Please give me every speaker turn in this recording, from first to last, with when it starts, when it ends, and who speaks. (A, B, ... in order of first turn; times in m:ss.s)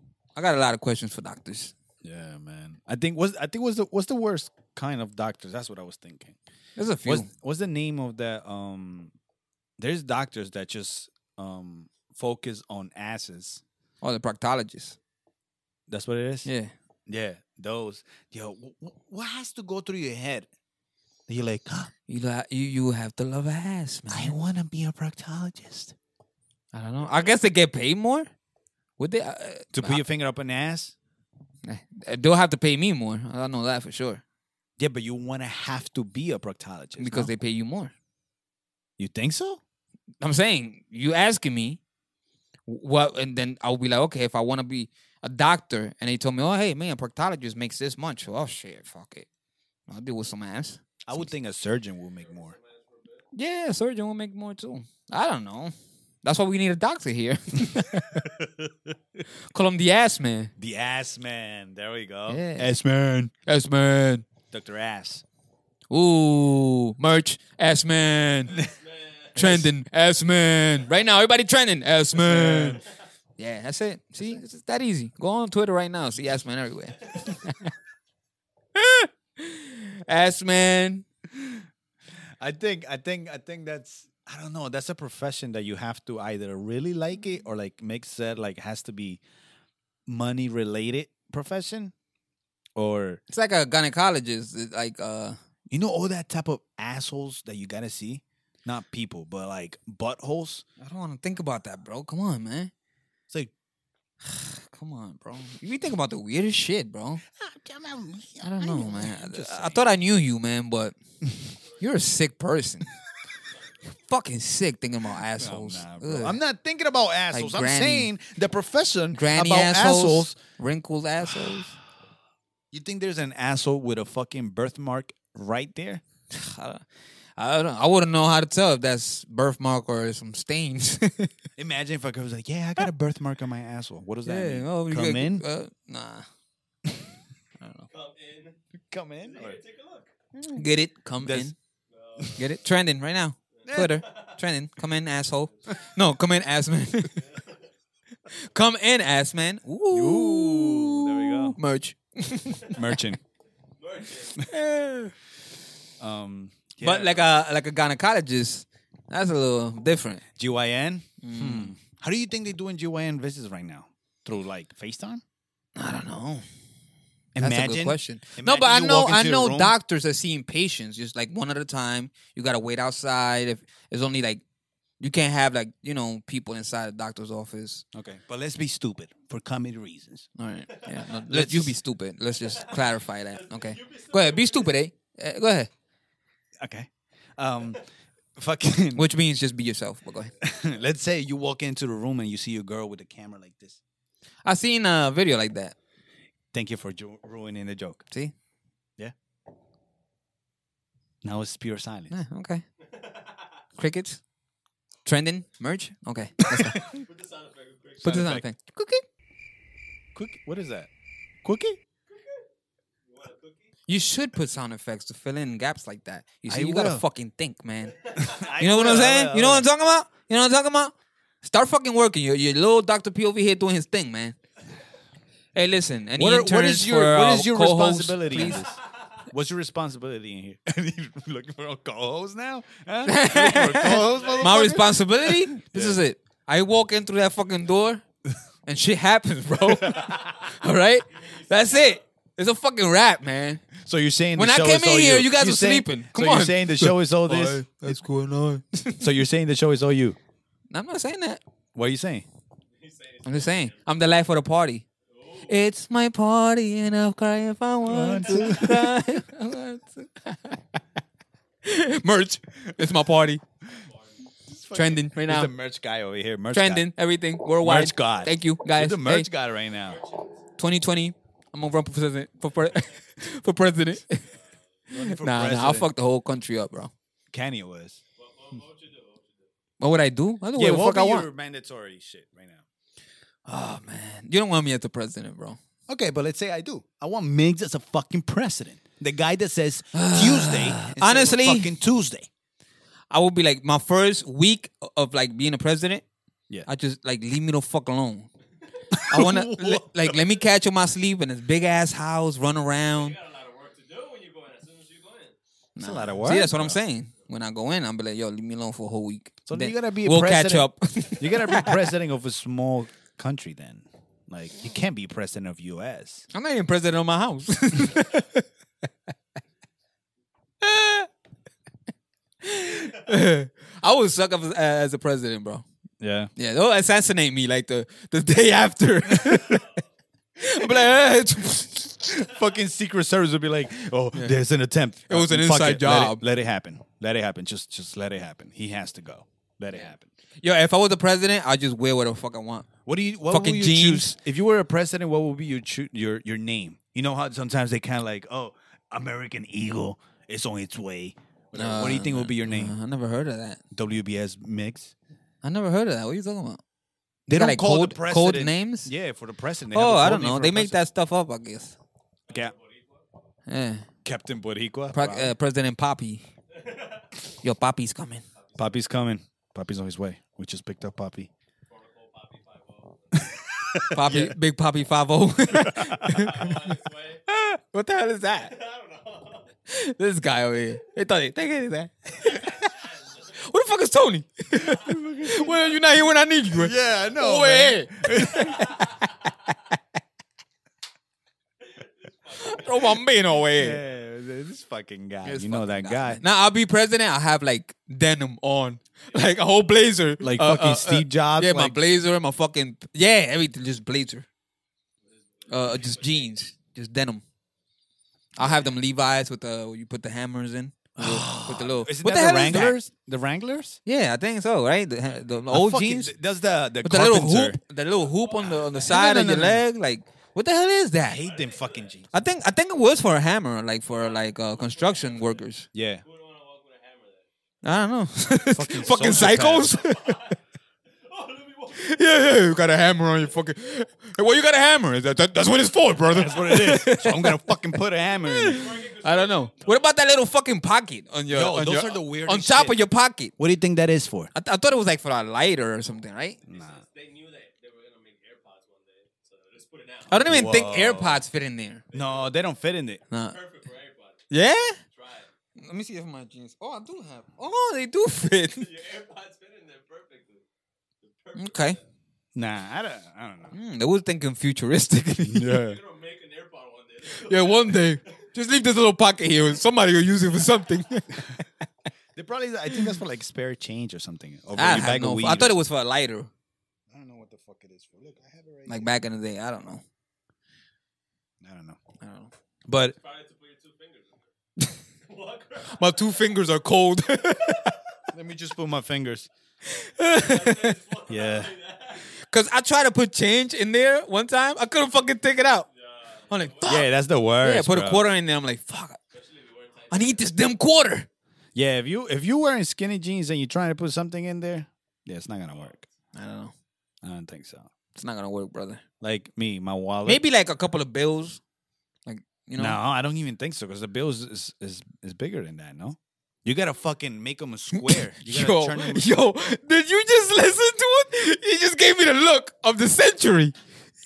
0:00.4-0:01.7 A
0:02.0-0:06.4 B
0:06.8-0:07.3 A
0:07.0-0:09.1 B
0:09.8-0:13.6 B
0:14.0-0:15.0 A
0:15.9-0:16.5 B
0:16.4-0:16.7 A
0:17.1-0:20.5 B
0:21.3-0:21.9 B
0:22.1-0:24.4 A
0:24.1-0:25.9 B
0:26.7-0:28.3 A
0:29.0-0:30.0 A
0:29.7-0:30.9 B
0:31.6-0:34.2 A
0:34.8-0:37.3 B
0:37.0-0:37.9 A
0:39.0-0:39.6 B
0:40.2-0:41.8 A
0:42.6-0:49.3 A
0:49.9-0:51.2 A
0:51.0-0:52.6 B
0:52.2-0:53.3 C
0:53.3-0:58.3 A
0:57.8-0:58.9 B
0:59.5-1:00.5 A
1:00.6-1:03.3 B
1:02.3-1:02.7 A
1:03.4-1:04.2 A
1:04.5-1:05.2 B
1:05.9-1:08.6 A
1:08.5-1:09.4 C
1:09.4-1:12.8 A
1:09.4-1:09.7 B
1:12.2-1:12.8 B
1:13.4-1:17.7 A
1:18.7-1:21.0 A
1:21.4-1:21.6 B
1:22.4-1:29.2 B
1:30.1-1:31.9 B
1:32.8-1:33.2 B
1:33.3-1:35.4 A
1:35.7-1:40.6 B
1:40.8-1:42.7 A
1:44.2-1:47.2 A
1:47.3-1:49.8 B
1:48.4-1:50.9 A
1:51.8-1:52.9 A
1:53.9-1:56.4 A
1:55.4-2:00.4 B
1:57.3-1:58.1 A
1:59.1-2:01.8 A
2:01.3-2:01.6 B
2:02.7-2:06.0 B
2:06.3-2:06.8 A
2:07.4-2:11.3 A
2:11.6-2:15.4 B
2:14.2-2:16.3 A
2:17.6-2:17.8 A
2:17.9-2:18.6 C
2:18.9-2:19.6 B
2:19.2-2:20.1 C
2:20.4-2:21.5 A
2:21.2-2:21.5 B
2:21.9-2:22.6 C
2:22.4-2:27.2 A
2:23.6-2:24.3 C
2:23.6-2:24.0 B
2:27.2-2:27.7 C
2:28.3-2:33.0 A
2:29.9-2:31.6 B
2:32.7-2:33.2 B
2:33.8-2:34.5 C
2:34.4-2:35.1 A
2:36.0-2:37.2 B
2:36.8-2:40.2 A
2:40.4-2:45.2 B
2:41.2-2:41.7 A
2:45.8-2:46.4 A
2:47.3-2:49.7 B
2:47.4-2:54.4 A
2:55.0-2:57.8 A
2:57.9-3:00.3 B
3:00.4-3:05.7 A
3:00.7-3:01.1 C
3:01.3-3:01.8 B
3:02.4-3:04.8 C
3:06.6-3:07.8 B
3:08.4-3:09.1 B
3:08.9-3:10.3 A
3:10.4-3:13.8 B
3:14.4-3:15.7 A
3:16.5-3:18.0 B
3:21.2-3:22.1 B
3:22.1-3:22.6 A
3:22.8-3:23.5 C
3:23.8-3:24.2 A
3:25.0-3:26.9 A
3:26.4-3:27.0 B
3:26.8-3:28.3 C
3:28.0-3:29.0 A
3:28.0-3:28.4 B
3:30.1-3:30.9 B
3:31.4-3:31.8 B
3:32.1-3:32.4 C
3:33.0-3:33.7 C
3:33.9-3:44.3 A
3:36.5-3:37.0 B
3:38.0-3:38.5 C
3:38.2-3:39.7 B
3:45.5-3:48.7 A
3:46.2-3:56.0 B
3:53.0-3:58.0 A
3:53.8-3:54.7 C
3:58.6-4:03.6 A
3:59.8-4:00.2 B
4:01.1-4:02.0 C
4:03.8-4:08.0 B
4:04.4-4:09.1 A
4:09.0-4:10.2 B
4:10.7-4:11.4 A
4:11.7-4:12.2 B
4:12.7-4:13.8 C
4:13.2-4:14.8 A
4:15.1-4:15.6 C
4:15.5-4:20.6 A
4:17.9-4:18.9 B
4:21.6-4:23.4 A
4:23.6-4:24.2 C
4:24.5-4:26.9 B
4:24.7-4:25.5 A
4:26.5-4:29.3 A
4:27.6-4:30.0 B
4:29.8-4:30.4 C
4:30.6-4:34.2 A
4:32.6-4:33.0 C
4:34.9-4:35.9 B
4:34.9-4:36.9 A
4:37.3-4:38.0 B
4:38.2-4:39.5 C
4:39.8-4:41.2 A
4:40.6-4:42.6 B
4:43.4-4:45.6 A
4:45.9-4:52.3 B
4:49.9-4:51.7 A
4:53.1-4:56.0 A
4:56.6-4:58.3 A
4:58.9-5:00.2 B
4:59.0-5:03.2 A
5:02.9-5:05.4 C
5:05.8-5:11.9 A
5:05.8-5:06.8 B
5:09.4-5:16.2 B
5:16.3-5:18.4 A
5:20.6-5:21.1 A
5:22.4-5:25.6 A
5:26.0-5:26.3 B
5:26.4-5:29.7 A
5:30.4-5:32.0 A
5:30.5-5:30.9 B
5:32.0-5:40.1 B
5:35.1-5:36.2 A
5:40.4-5:42.7 A
5:42.8-5:52.8 B
5:43.3-5:44.2 A
5:51.5-5:53.6 A
5:53.7-5:54.9 B
5:55.4-5:56.6 A
5:57.3-5:58.9 A
5:57.3-6:00.8 B
5:59.7-6:01.8 A
6:02.3-6:03.0 C
6:03.5-6:03.8 A
6:04.0-6:05.3 B
6:04.9-6:06.3 A
6:06.5-6:07.1 C
6:07.4-6:08.2 A
6:08.4-6:08.8 C
6:08.6-6:11.3 B
6:11.7-6:13.4 C
6:13.1-6:14.3 B
6:13.9-6:16.7 A
6:15.6-6:15.9 B
6:16.0-6:17.2 C
6:17.3-6:18.5 A
6:18.5-6:19.5 C
6:19.7-6:22.7 A
6:22.2-6:23.4 C
6:23.3-6:29.1 A
6:24.7-6:25.7 C
6:24.7-6:25.5 B
6:26.5-6:28.7 B
6:28.4-6:29.0 C
6:31.6-6:33.1 C
6:32.3-6:33.8 A
6:33.6-6:36.2 B
6:35.2-6:44.2 A
6:40.2-6:41.8 B
6:45.1-6:46.3 C
6:45.5-6:47.2 A
6:48.4-6:52.8 A
6:51.0-6:53.8 B
6:53.8-6:56.1 A
6:55.5-6:57.6 B
6:56.8-7:01.2 A
6:57.9-6:58.9 C
6:58.9-6:59.6 B
7:01.0-7:02.1 B
7:01.2-7:01.9 C
7:02.1-7:05.6 A
7:03.9-7:05.4 C
7:05.7-7:06.0 B
7:06.0-7:07.3 C
7:07.6-7:10.2 A
7:08.5-7:09.7 B
7:09.8-7:10.4 C
7:10.9-7:12.2 C
7:11.7-7:17.6 A
7:16.1-7:18.8 B
7:18.3-7:23.3 A
7:18.4-7:19.9 C
7:21.3-7:22.8 B
7:23.4-7:24.3 B
7:24.3-7:26.4 A
7:26.5-7:26.8 B
7:26.5-7:30.2 C
7:30.1-7:31.8 A
7:30.2-7:31.2 B
7:31.9-7:32.4 C
7:31.9-7:33.0 B
7:33.1-7:34.2 C
7:33.1-7:33.4 A
7:34.3-7:34.8 A
7:34.8-7:35.3 C
7:35.6-7:38.7 A
7:38.6-7:40.4 C
7:41.0-7:41.8 C
7:41.3-7:41.8 A
7:42.3-7:43.5 B
7:43.5-7:45.6 A
7:45.2-7:45.8 B
7:45.5-7:48.2 C
7:47.1-7:51.4 A
7:52.2-7:55.6 B
7:54.5-7:56.3 A
7:56.9-7:58.9 B
7:58.7-7:59.8 A
8:01.4-8:01.8 B
8:02.0-8:02.3 A
8:02.7-8:03.0 B
8:02.9-8:04.3 C
8:05.0-8:06.0 C
8:05.6-8:07.7 A
8:07.4-8:07.7 C
8:08.1-8:09.3 B
8:09.7-8:10.8 A
8:10.0-8:12.2 C
8:11.1-8:11.5 B
8:12.2-8:15.7 A
8:15.7-8:16.8 C
8:16.3-8:16.9 A
8:16.6-8:18.0 B
8:17.4-8:19.0 A
8:19.1-8:20.3 C
8:19.9-8:21.1 A
8:21.5-8:25.8 B
8:25.6-8:25.8 C
8:26.1-8:26.5 A
8:27.0-8:27.7 B
8:27.9-8:28.8 A
8:29.0-8:30.2 B
8:30.0-8:31.4 A
8:32.0-8:32.8 A
8:32.6-8:39.1 B
8:37.7-8:43.5 A